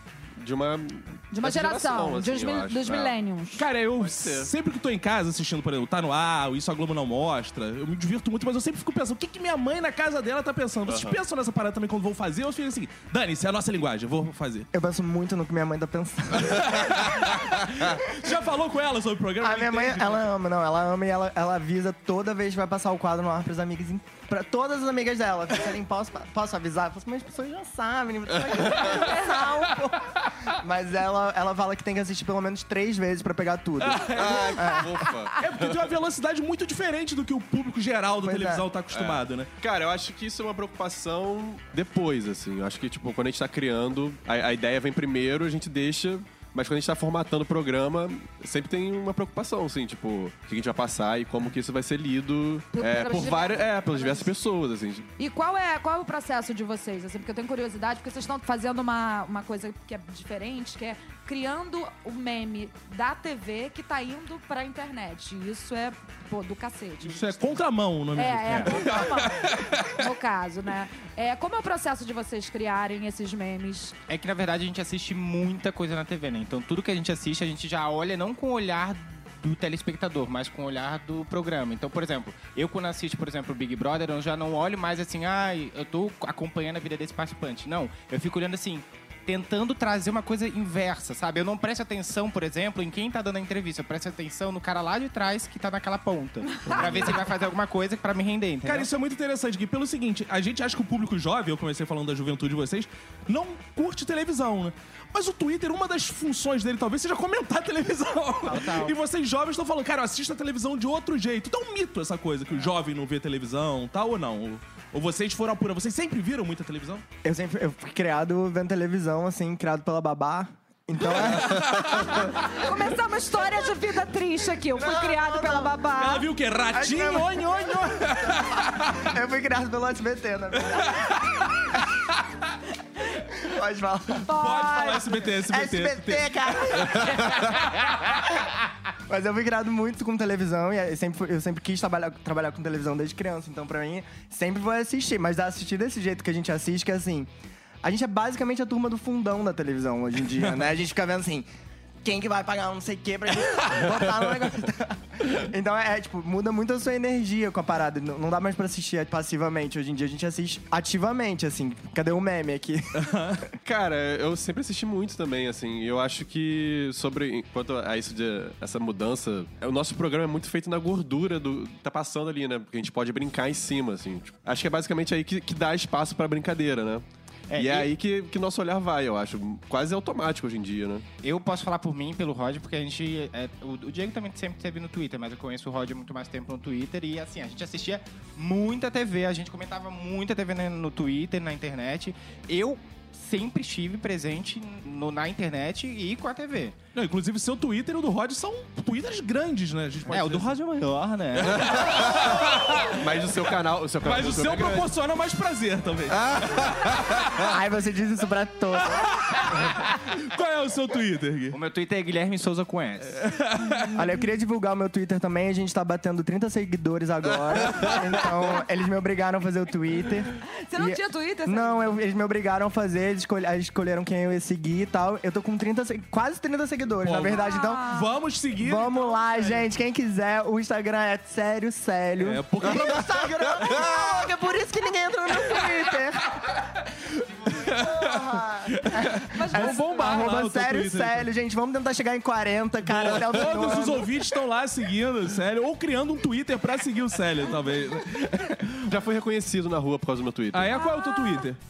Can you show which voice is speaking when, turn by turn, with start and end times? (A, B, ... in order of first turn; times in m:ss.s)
0:00.4-0:03.2 A
0:01.3-0:03.7 B
0:03.5-0:14.7 C
0:04.0-0:04.5 A
0:10.9-0:11.2 A
0:14.7-0:17.3 D
0:16.5-0:20.2 C
0:19.4-0:35.1 D
0:33.9-0:34.4 C
0:34.0-0:35.9 A
0:35.4-0:39.5 C
0:38.2-0:38.7 D
0:38.9-0:55.1 A
0:52.7-0:54.3 B
0:55.2-1:07.5 B
1:07.0-1:10.0 C
1:08.1-1:14.0 B
1:14.1-1:38.9 E
1:38.6-1:57.0 C
1:48.5-1:48.9 E
1:57.2-2:02.2 D
2:01.4-2:02.3 C
2:02.2-2:06.3 B
2:04.7-2:05.8 D
2:05.9-2:09.0 C
2:06.7-2:11.1 D
2:10.6-2:11.2 C
2:13.3-2:17.6 D
2:14.3-2:15.2 B
2:14.3-2:17.1 C
2:19.1-2:27.3 D
2:27.8-2:31.5 D
2:32.0-2:43.5 D
2:43.0-2:43.4 C
2:43.6-3:01.0 A
2:57.5-2:57.9 E
3:01.2-3:16.8 E
3:16.9-3:20.6 C
3:20.1-3:21.9 E
3:21.3-3:23.0 C
3:21.6-3:24.9 A
3:24.0-3:26.7 C
3:26.1-3:27.3 A
3:27.4-3:29.3 D
3:29.0-3:31.6 C
3:31.5-3:33.3 E
3:33.2-3:34.0 C
3:33.9-3:47.9 D
3:40.6-3:42.0 B
3:47.0-3:49.0 C
3:47.3-3:48.1 B
3:48.6-3:56.4 D
3:52.2-3:53.2 C
3:57.6-4:04.2 D
3:57.7-3:58.0 C
3:58.8-4:01.3 C
3:59.2-4:00.2 B
4:02.8-4:08.9 C
4:08.8-4:10.8 A
4:10.5-4:11.6 C
4:10.7-4:11.5 B